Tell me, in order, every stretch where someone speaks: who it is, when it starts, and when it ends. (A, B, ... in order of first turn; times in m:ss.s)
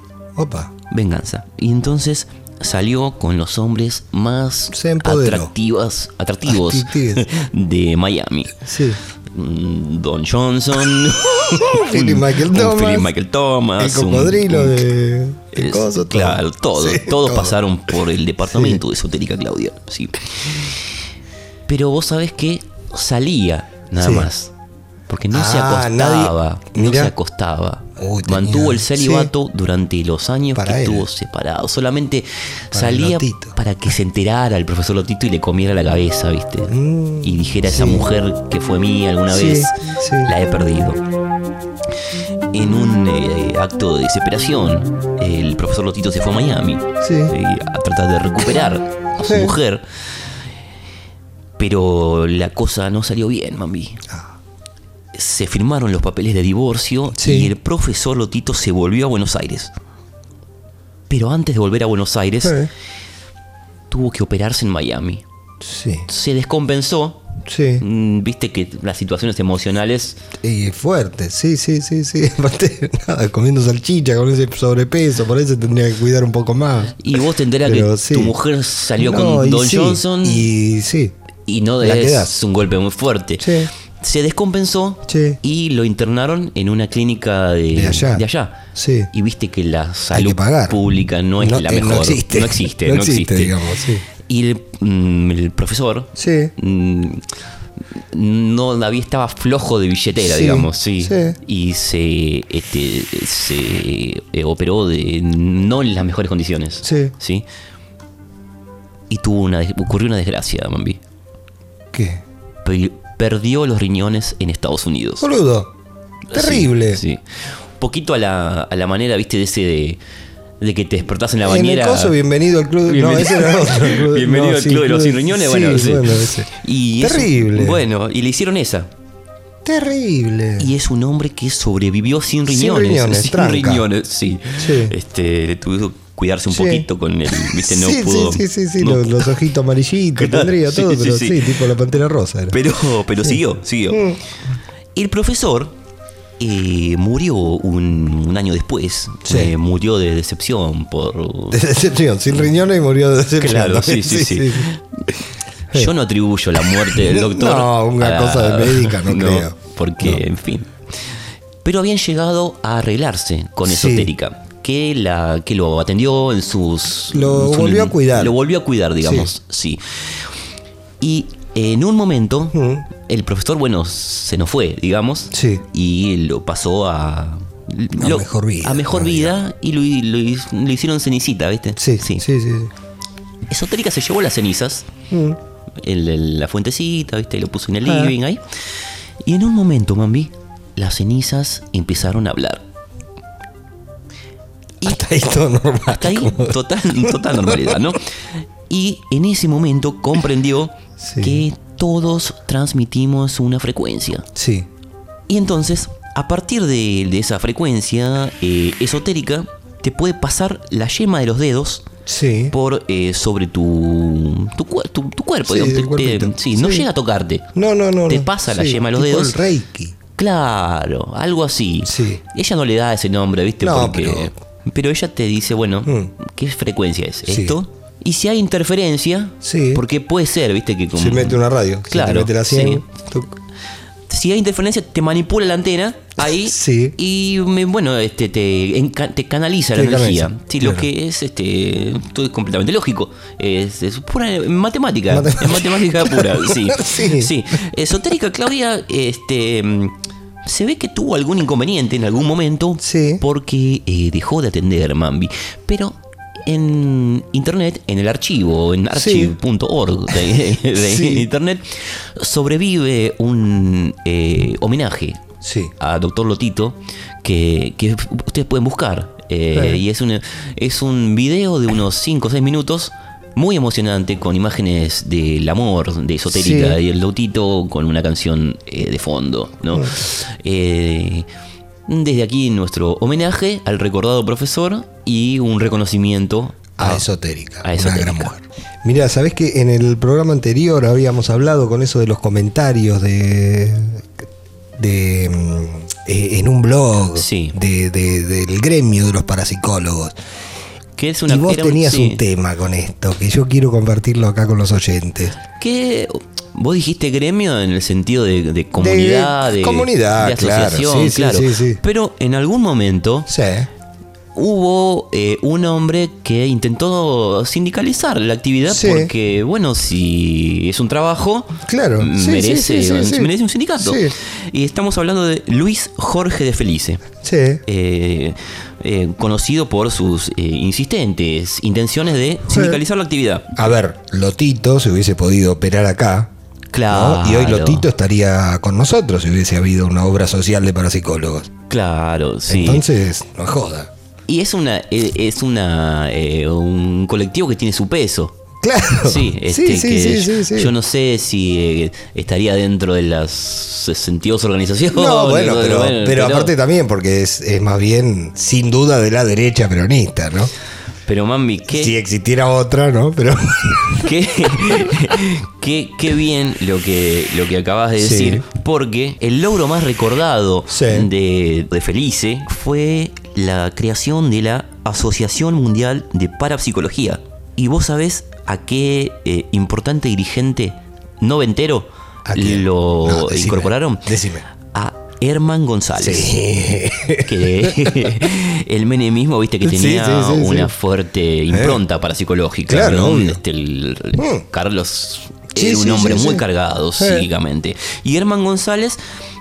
0:00.4-0:00.7 A
0:00.9-0:08.6 B
0:04.7-0:05.5 A
0:06.4-0:07.3 A
0:08.6-0:09.0 A
0:09.3-0:14.8 B
0:11.7-0:13.1 A
0:13.8-0:17.6 A
0:15.5-0:20.8 B
0:18.5-0:18.8 A
0:21.7-0:24.5 B
0:24.0-0:24.3 A
0:25.1-0:41.0 B
0:25.3-0:27.1 A
0:28.0-0:29.3 A
0:30.6-0:31.0 A
0:32.7-0:33.6 A
0:36.7-0:38.0 A
0:39.3-0:40.3 A
0:42.5-0:49.8 B
0:47.0-0:47.3 A
0:49.2-0:49.5 A
0:51.6-0:54.0 B
0:55.1-0:59.7 B
0:57.1-0:57.5 A
1:01.1-1:02.6 B
1:02.4-1:02.7 A
1:03.9-1:05.2 B
1:05.6-1:06.0 A
1:06.1-1:07.2 B
1:07.4-1:07.8 A
1:07.8-1:10.2 B
1:10.4-1:18.3 A
1:17.0-1:20.5 B
1:19.0-1:21.1 A
1:21.5-1:28.6 B
1:21.8-1:22.3 A
1:23.4-1:23.7 A
1:25.1-1:25.4 A
1:27.7-1:28.2 A
1:28.7-1:29.1 A
1:29.1-1:33.6 B
1:30.1-1:30.8 A
1:31.4-1:34.0 A
1:34.3-1:37.2 B
1:36.2-1:36.5 A
1:38.1-1:47.4 B
1:40.2-1:41.4 A
1:46.8-1:47.1 A
1:49.1-1:51.0 B
1:51.9-1:52.2 A
1:52.6-1:55.2 B
1:55.2-1:55.7 A
1:56.3-2:00.0 B
1:56.3-1:57.0 A
2:00.6-2:02.1 B
2:01.4-2:06.5 A
2:02.8-2:08.9 B
2:07.0-2:07.8 A
2:09.6-2:10.7 A
2:10.6-2:19.3 B
2:12.5-2:13.8 A
2:14.6-2:14.9 A
2:16.5-2:16.8 A
2:17.5-2:22.6 A
2:20.2-2:21.4 B
2:22.5-2:24.1 B
2:23.2-2:24.2 A
2:24.9-2:25.7 B
2:26.4-2:31.6 B
2:29.2-2:29.5 A
2:31.5-2:34.7 A
2:33.4-2:34.8 B
2:35.7-2:40.7 B
2:36.6-2:40.2 A
2:41.6-2:50.3 B
2:43.6-2:44.1 A
2:47.1-2:48.3 A
2:49.0-2:49.3 A
2:51.0-2:52.6 B
2:52.5-2:52.8 A
2:53.1-3:02.2 B
2:55.3-2:55.6 A
2:58.0-2:59.3 A
3:01.8-3:02.7 A
3:03.5-3:04.8 B
3:05.1-3:05.4 A
3:05.8-3:08.4 B
3:07.8-3:08.1 A
3:09.2-3:12.6 B
3:14.8-3:16.6 A
3:15.9-3:18.0 B
3:17.1-3:17.7 A
3:18.7-3:24.2 B
3:21.0-3:21.4 A
3:24.3-3:24.7 A
3:25.3-3:31.8 B
3:32.0-3:32.5 A
3:32.5-3:37.4 B
3:35.5-3:36.8 A
3:37.5-3:39.9 A
3:38.1-3:39.4 B
3:40.2-3:52.8 B
3:41.8-3:42.2 A
3:43.6-3:44.3 A
3:45.8-3:46.1 A
3:47.3-3:47.6 A
3:49.4-3:49.8 A
3:50.9-3:53.3 A
3:54.1-4:25.2 B
3:56.2-3:57.0 A
3:59.7-4:00.9 A
4:05.1-4:07.3 A
4:12.8-4:13.2 A
4:18.9-4:19.3 A
4:20.8-4:21.2 A
4:25.4-4:25.7 A
4:25.8-4:41.3 B
4:29.5-4:29.8 A
4:36.3-4:36.8 A
4:39.7-4:40.0 A
4:41.9-4:47.0 B
4:46.8-4:54.1 A
4:47.6-4:48.4 B
4:54.8-5:00.2 A
4:57.2-4:57.5 B
5:01.0-5:02.2 B
5:01.3-5:05.3 A
5:05.6-5:13.3 B
5:08.7-5:11.8 A
5:13.3-5:13.7 A
5:14.3-5:27.0 B
5:18.7-5:19.1 A
5:21.7-5:24.1 A
5:27.2-5:27.6 A
5:27.6-5:33.5 B
5:32.5-5:32.8 A
5:33.6-5:36.3 A
5:36.7-5:37.9 B
5:36.9-5:41.5 A
5:41.7-5:42.8 B
5:42.5-5:43.9 A
5:44.3-5:48.3 B
5:48.6-5:50.7 A
5:49.0-5:56.5 B
5:54.9-6:00.5 A
6:01.1-6:01.9 B
6:01.7-6:04.1 A
6:04.0-6:24.1 B
6:08.0-6:08.4 A
6:10.7-6:11.1 A
6:22.2-6:24.4 A
6:24.7-6:26.3 B
6:26.0-6:28.0 A
6:27.2-6:39.0 B
6:29.6-6:30.7 A
6:31.5-6:31.8 A
6:32.7-6:33.4 A
6:34.2-6:34.4 A
6:35.5-6:36.4 A
6:37.0-6:37.3 A